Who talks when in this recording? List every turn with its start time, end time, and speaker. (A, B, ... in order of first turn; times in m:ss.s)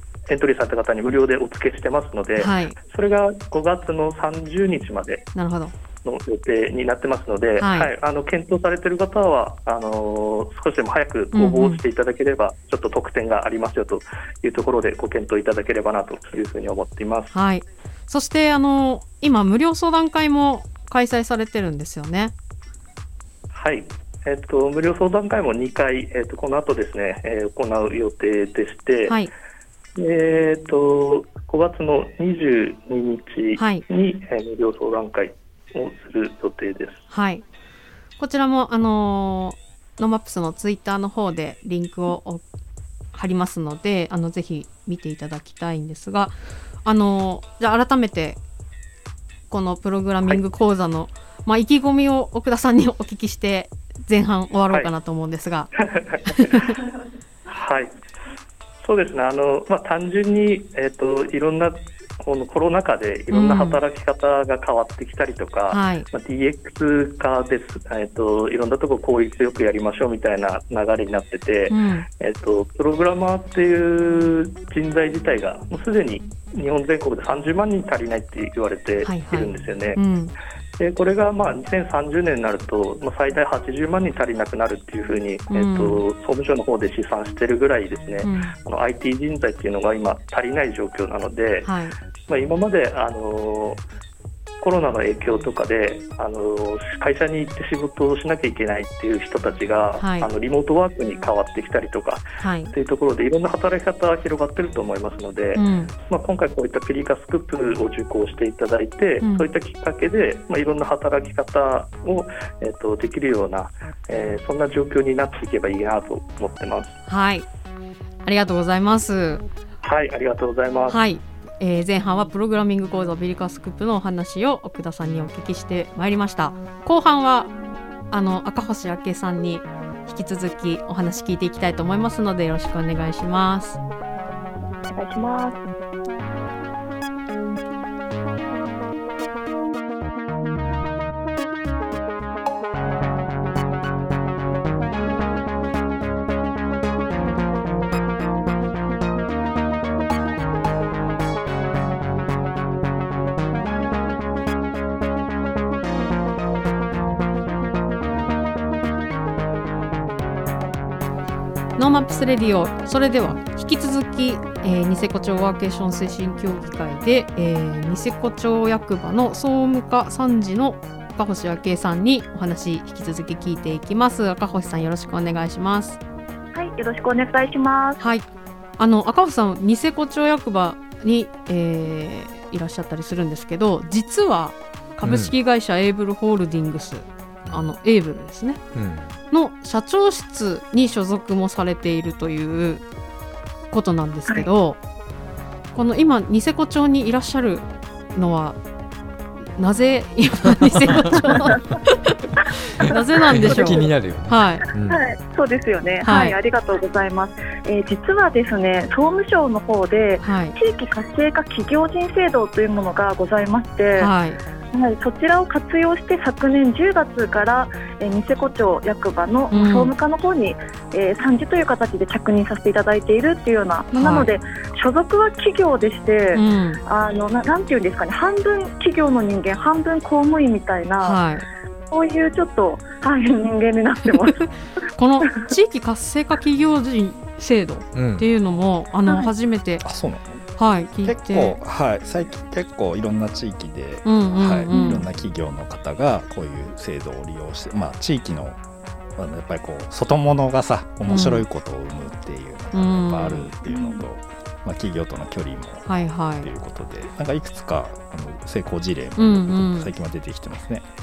0:00.3-0:05.3 A
0:02.4-0:02.8 B
0:05.4-0:05.7 B
0:06.0-0:17.3 A
0:07.6-0:07.9 B
0:11.3-0:11.8 B
0:17.3-0:22.3 B
0:23.5-0:29.2 A
0:30.0-0:37.0 A
0:33.6-0:33.8 B
0:37.1-0:37.4 B
0:38.2-0:42.4 B
0:43.1-0:48.4 B
0:49.5-0:55.7 B
0:55.8-0:56.8 A
0:56.3-0:56.8 B
0:57.5-0:58.0 A
0:58.8-1:20.0 A
1:03.3-1:03.8 B
1:05.7-1:06.1 B
1:11.7-1:12.1 B
1:19.0-1:20.3 B
1:20.8-1:31.7 A
1:25.5-1:26.0 B
1:28.2-1:28.6 B
1:31.6-1:32.0 B
1:32.3-1:33.8 A
1:34.6-1:57.0 A
1:40.0-1:40.3 B
1:42.4-1:42.7 B
1:45.6-1:45.9 B
1:49.2-1:49.5 B
1:57.1-1:57.5 B
1:58.2-1:59.4 B
1:59.8-2:01.0 A
2:00.9-2:07.5 B
2:08.1-2:13.8 B
2:14.9-2:15.6 C
2:41.8-2:56.0 B
2:56.5-2:58.0 C
2:58.0-2:58.3 B
2:58.8-3:08.6 B
3:05.0-3:05.3 D
3:08.8-3:09.2 D
3:09.3-3:12.8 B
3:13.7-3:14.8 B
3:15.7-3:18.6 B
3:19.6-3:22.2 B
3:22.8-3:24.6 B
3:22.9-3:23.9 C
3:23.2-3:25.0 D
3:24.9-3:34.1 C
3:26.0-3:26.4 B
3:30.2-3:30.6 B
3:34.0-3:34.4 B
3:34.7-3:51.2 C
3:39.5-3:39.9 B
3:43.9-3:44.3 B
3:46.3-3:46.8 B
3:51.0-3:51.5 B
3:51.9-3:54.5 C
3:55.0-3:59.8 B
3:57.9-3:58.3 D
3:59.8-4:00.5 E
4:00.6-4:01.6 B
4:01.0-4:08.6 E
4:04.0-4:05.0 B
4:04.7-4:05.0 C
4:09.2-4:15.9 E
4:11.1-4:11.4 B
4:12.7-4:13.5 B
4:13.7-4:14.0 C
4:15.9-4:16.5 B
4:16.4-4:20.8 E
4:19.2-4:19.9 B